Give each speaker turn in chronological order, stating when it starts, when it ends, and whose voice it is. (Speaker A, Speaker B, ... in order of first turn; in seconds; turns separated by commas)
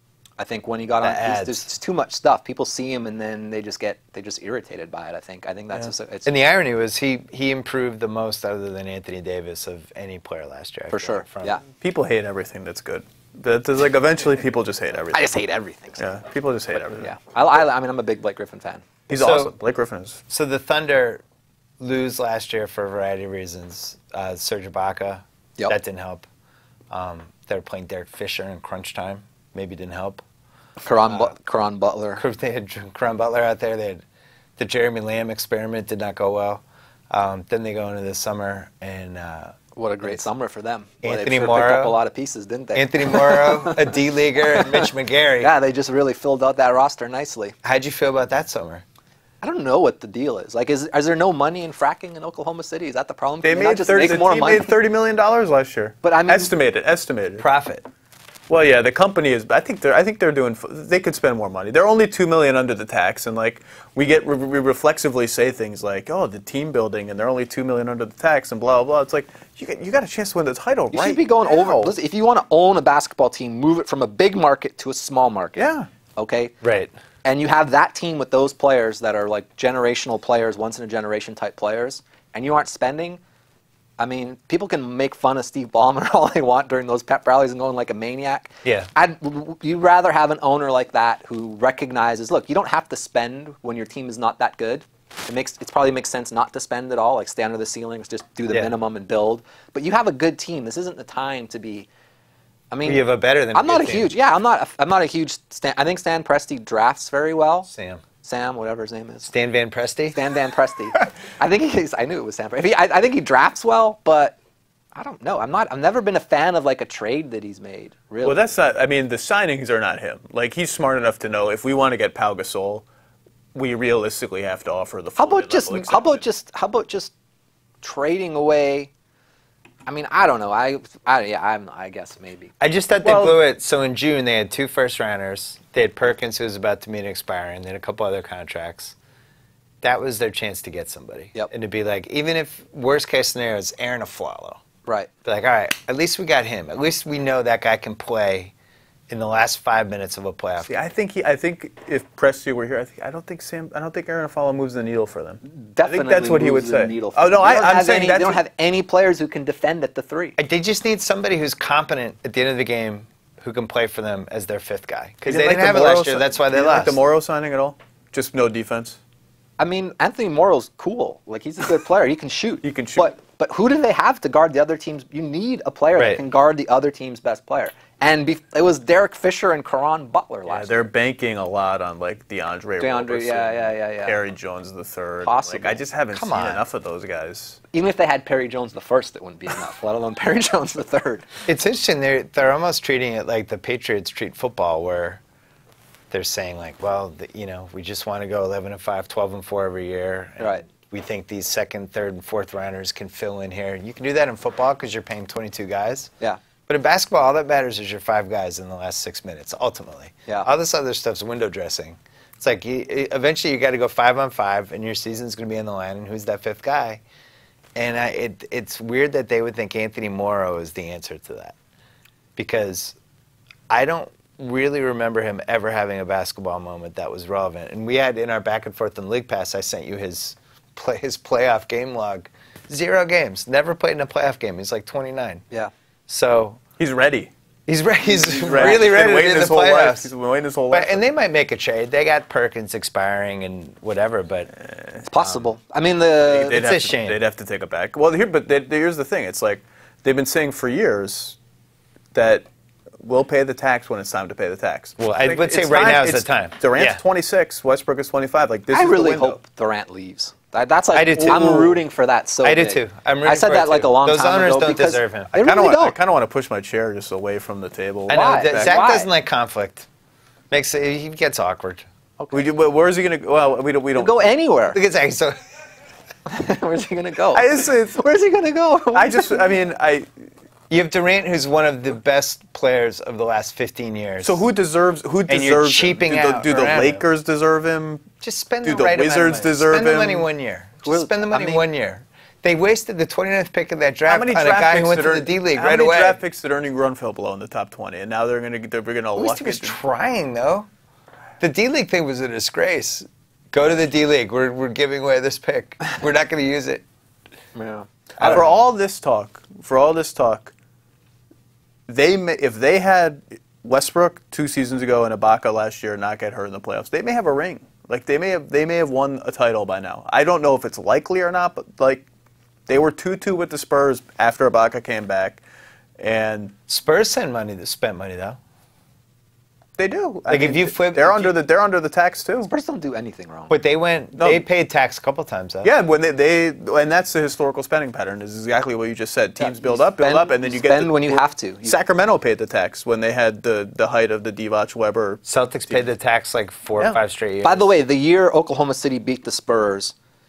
Speaker A: 0.4-6.3, Speaker B: 1.0-1.7, Speaker B: 6.2-11.6, Speaker A: 10.9-11.6, Speaker C: 11.7-15.3, Speaker A: 15.1-16.1, Speaker C: 16.0-17.1, Speaker A: 16.8-18.9, Speaker C: 19.1-20.2, Speaker B: 19.1-19.5, Speaker B: 20.3-21.2, Speaker B: 21.8-26.2, Speaker B: 26.9-30.2, Speaker A: 30.8-32.2, Speaker B: 32.2-34.0, Speaker B: 34.6-40.2, Speaker A: 39.8-47.5, Speaker B: 41.0-42.0, Speaker B: 42.8-45.5, Speaker B: 47.6-48.8, Speaker A: 49.4-54.7, Speaker C: 53.4-57.5, Speaker A: 56.0-56.5, Speaker B: 57.4-57.8, Speaker C: 58.5-71.9, Speaker A: 70.9-76.5, Speaker C: 75.6-75.9, Speaker B: 76.6-76.9, Speaker A: 77.2-83.2, Speaker A: 84.0-101.9, Speaker A: 102.7-107.7, Speaker B: 102.8-104.1, Speaker B: 107.7-108.0, Speaker A: 108.2-109.3, Speaker B: 109.2-110.2, Speaker A: 110.1-114.4, Speaker A: 115.0-118.4, Speaker C: 118.2-122.8, Speaker C: 123.5-126.2, Speaker A: 125.2-127.1, Speaker A: 127.8-128.9, Speaker A: 129.9-132.5, Speaker B: 132.6-138.9, Speaker C: 133.0-133.4, Speaker B: 139.8-144.6, Speaker B: 145.2-148.5, Speaker B: 149.1-150.7, Speaker C: 150.7-158.4, Speaker A: 155.5-160.4, Speaker B: 160.4-167.0, Speaker C: 165.2-169.0, Speaker A: 169.6-180.9, Speaker C: 172.6-173.1, Speaker B: 176.0-176.2, Speaker C: 180.5-187.6, Speaker A: 182.8-184.2, Speaker A: 185.2-185.8, Speaker B: 186.1-186.6, Speaker A: 187.7-191.3, Speaker B: 191.5-195.2, Speaker B: 196.1-206.1, Speaker A: 200.4-200.7, Speaker B: 206.7-217.0, Speaker B: 217.8-221.6, Speaker B: 222.4-223.0, Speaker B: 223.7-235.4, Speaker B: 236.1-236.6, Speaker C: 236.8-237.3, Speaker B: 237.7-240.1, Speaker C: 238.3-241.1, Speaker B: 240.7-244.5, Speaker C: 244.7-245.0, Speaker A: 245.1-246.6, Speaker B: 245.2-245.5, Speaker C: 246.2-251.4, Speaker B: 246.5-247.2, Speaker C: 252.1-252.5, Speaker C: 253.0-259.4, Speaker B: 255.0-257.0, Speaker A: 258.7-266.0, Speaker B: 260.9-261.8, Speaker C: 261.2-261.8, Speaker B: 262.4-265.3, Speaker C: 265.4-268.8, Speaker B: 268.1-269.9, Speaker A: 268.1-269.1, Speaker B: 270.5-271.9, Speaker C: 272.3-274.3, Speaker A: 274.0-274.8, Speaker B: 274.7-275.4, Speaker A: 276.3-279.4, Speaker C: 277.3-278.0, Speaker C: 278.9-280.1, Speaker B: 280.7-284.4, Speaker C: 284.2-288.1, Speaker B: 285.3-287.0, Speaker B: 288.2-296.2, Speaker C: 288.6-290.3, Speaker A: 290.9-291.7, Speaker C: 294.1-299.8, Speaker B: 299.2-300.7, Speaker B: 301.4-306.8, Speaker A: 307.6-308.4, Speaker B: 308.2-308.4, Speaker C: 308.2-310.5, Speaker C: 311.9-322.1, Speaker C: 322.7-325.4, Speaker C: 326.0-326.5, Speaker B: 326.7-328.4, Speaker C: 329.8-332.5, Speaker B: 330.3-331.4, Speaker A: 332.5-333.6, Speaker B: 333.5-335.7, Speaker C: 334.2-334.4, Speaker C: 335.6-345.9, Speaker A: 339.4-341.8, Speaker B: 345.3-347.7, Speaker A: 347.4-349.9